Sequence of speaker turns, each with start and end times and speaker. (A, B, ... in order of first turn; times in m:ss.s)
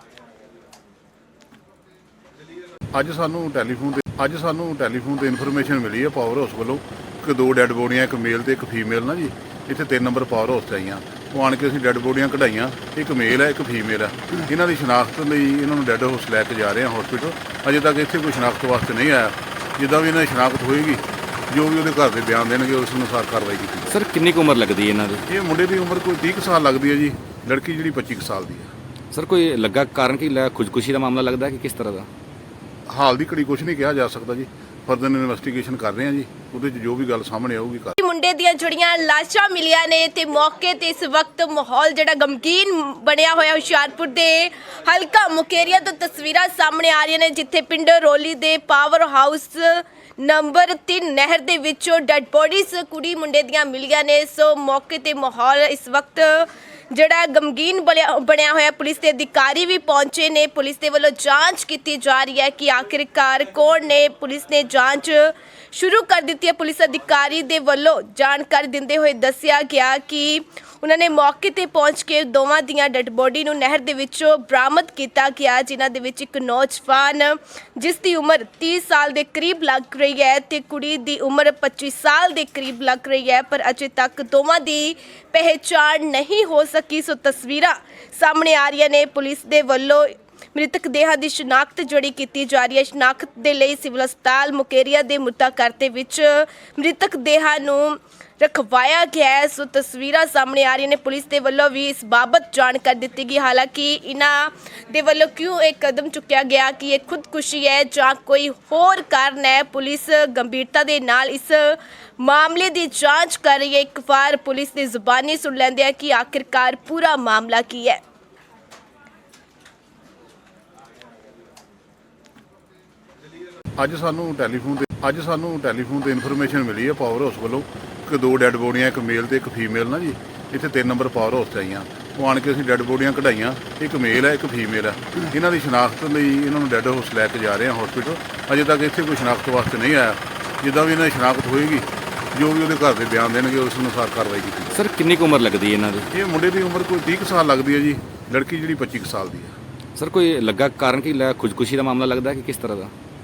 0:02.9-0:24.0 A
0:23.9-0:25.2 B
0:25.3-0:28.7 A
0:29.1-0:32.1 B
0:32.9-0:38.0 A
0:38.0-1:58.0 C
2:03.8-2:24.8 A
2:24.7-2:26.1 B
2:26.1-2:29.6 A
2:30.0-2:32.9 B